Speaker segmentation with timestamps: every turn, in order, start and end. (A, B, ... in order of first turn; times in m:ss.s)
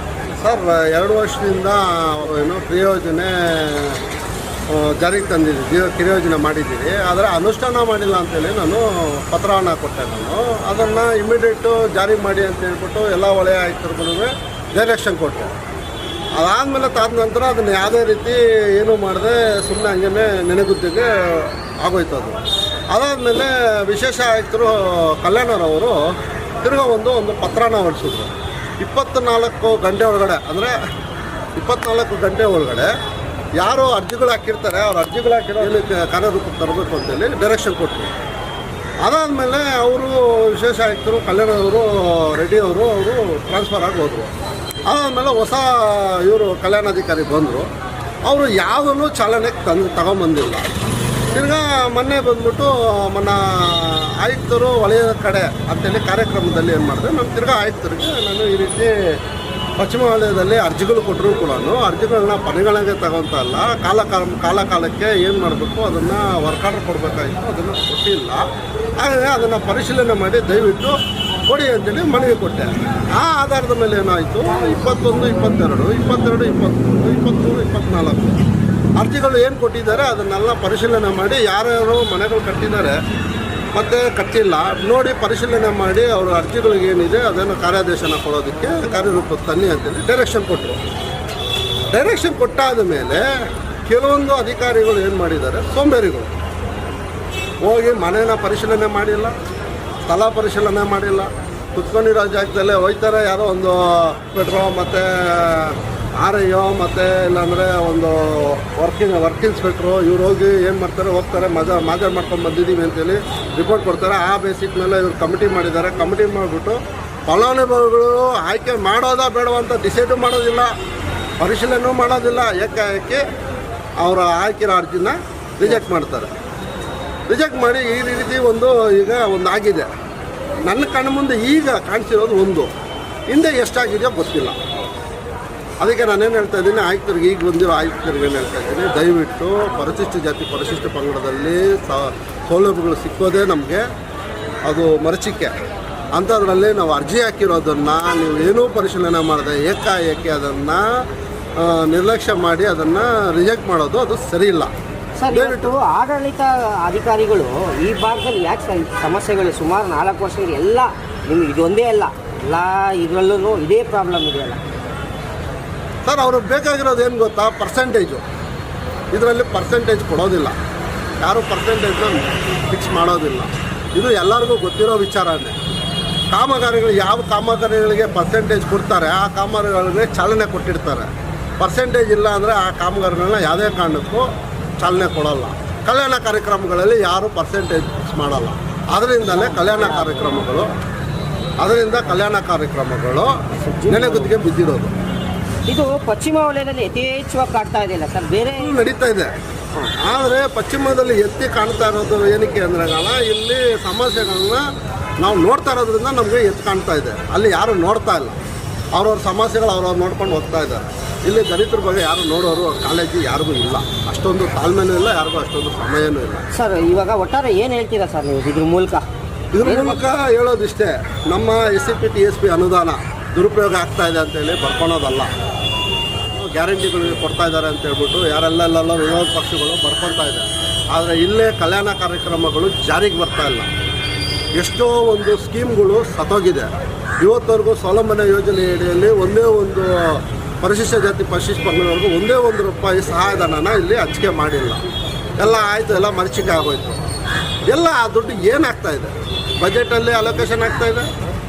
0:00.4-0:04.0 A
0:04.7-0:15.5 A
0:16.4-0:22.4 A
0:22.9-0:26.0 A
0:26.6-0:30.8 A
0:31.6-0:32.9 A
0:33.6-0:38.1 A
0:39.0-0:44.3 A
0:44.9-0:47.7 A
0:48.3-0:50.7 A
0:51.3-0:58.9 A
0:59.8-1:08.5 A
1:09.0-1:11.0 A
1:11.5-1:18.4 A
1:19.0-1:23.0 A
1:23.7-1:30.8 A
1:31.9-1:33.2 A
1:33.9-1:36.3 A
1:37.6-1:39.3 A
1:40.1-2:00.7 A
2:01.4-2:03.2 A
2:04.0-2:06.3 A
2:07.3-2:09.9 A
2:10.7-2:12.7 A
2:13.3-2:14.6 A
2:15.8-2:23.8 A
2:24.7-2:25.5 A
2:26.2-2:30.8 A
2:31.6-2:34.7 A
2:35.2-2:44.6 B
2:35.3-2:35.8 A
2:46.0-2:48.2 A
2:49.1-2:50.6 A
2:51.2-2:55.6 A
2:56.3-3:01.1 A
3:01.6-3:04.3 A
3:04.8-3:10.7 A
3:09.3-3:10.5 B
3:11.6-3:14.9 A
3:13.6-3:14.3 B
3:15.7-3:18.8 B
3:18.6-3:19.3 A
3:20.0-3:24.6 A
3:25.2-3:28.4 A
3:28.9-3:36.4 A
3:36.5-3:39.0 B
3:39.5-3:45.3 A
3:39.6-3:40.0 B
3:46.4-3:53.7 A
3:54.6-3:56.7 A
3:57.2-4:04.8 A
4:05.4-4:07.1 A
4:07.7-4:11.1 A